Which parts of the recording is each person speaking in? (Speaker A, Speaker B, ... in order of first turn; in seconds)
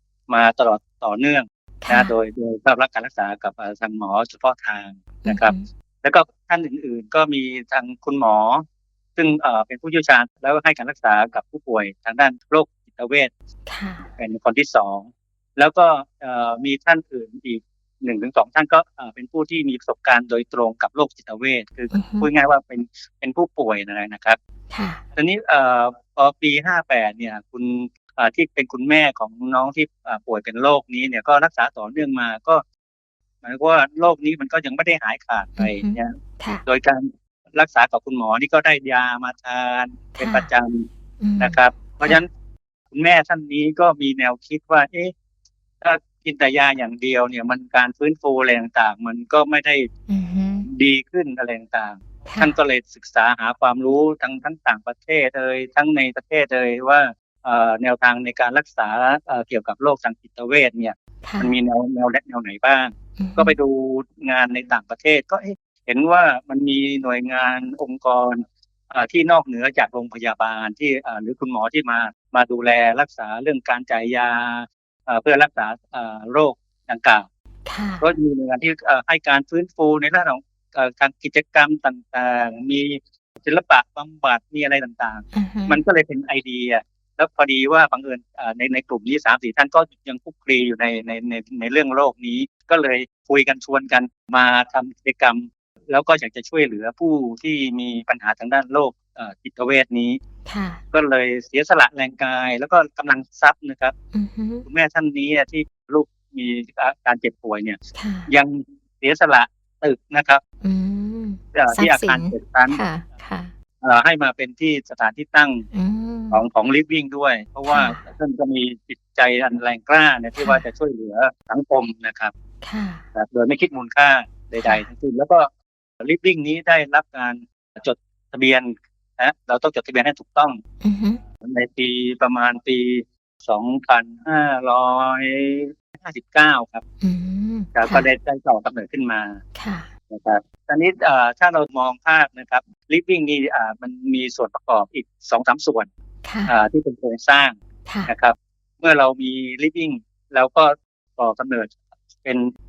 Speaker A: 0.3-8.6, 9.2-13.3, 14.2-24.4, 25.1-32.6, 33.4-36.1, 36.6-40.9, 41.4-42.3, 42.9-45.1, 45.8-49.9, 50.6-77.3, 78.0-100.2, 100.9-103.9, 104.7-110.4, 111.5-112.8, 113.8-115.6, 116.3-122.3, 123.1-125.5, 126.0-130.6, 131.4-136.8, 137.7-139.4, 140.1-145.9, 146.5-147.6, 148.1-151.7, 152.2-152.5
Speaker B: 1.8-2.1, 5.2-5.6, 13.7-14.0, 21.9-22.3, 24.7-25.0, 35.6-36.6, 40.2-40.5, 41.2-42.2, 50.1-50.7, 52.2-52.5, 61.2-61.5, 63.2-63.5, 77.7-78.0, 85.3-85.8, 100.5-100.8, 104.1-104.6, 107.9-108.3, 110.6-113.5, 115.7-116.4, 117.7-118.0, 122.6-123.0, 124.6-124.9, 130.8-131.2, 137.0-138.1, 139.5-139.9, 146.2-146.5, 147.8-148.1